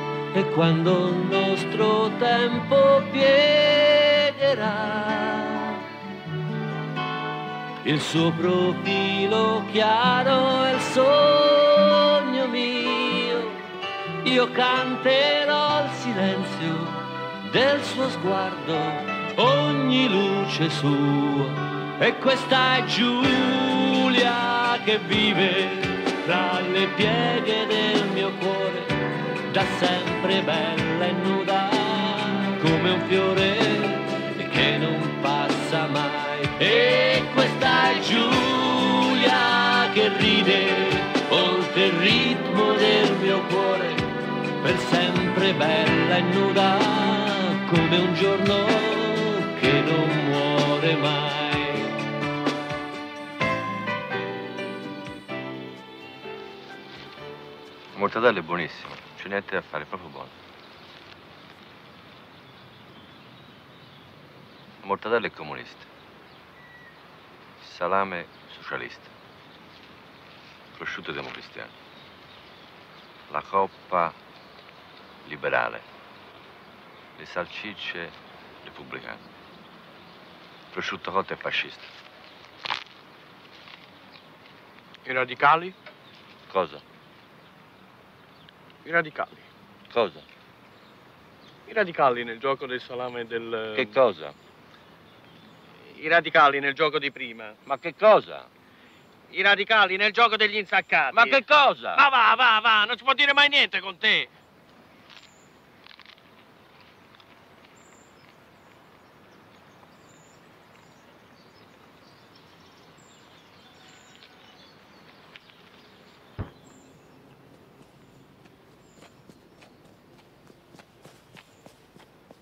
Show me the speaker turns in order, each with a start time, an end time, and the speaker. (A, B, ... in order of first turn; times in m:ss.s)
0:00.3-0:05.8 A
0:07.8-0:13.6 A
0:14.2-0:51.9 A
0:57.9-1:00.3 B
1:04.8-1:05.9 B
1:07.6-1:09.1 B
1:10.7-1:11.7 B
1:13.3-1:14.2 B
1:15.2-1:15.8 B
1:17.2-1:19.2 B
1:20.7-1:21.9 B
1:25.0-1:25.8 C
1:26.5-1:26.8 B
1:28.8-1:29.5 C
1:29.9-1:30.3 B
1:31.6-1:34.0 C
1:33.7-1:34.4 B
1:35.8-1:37.6 C
1:37.6-1:38.5 B
1:39.3-1:44.3 C
1:41.1-1:42.0 B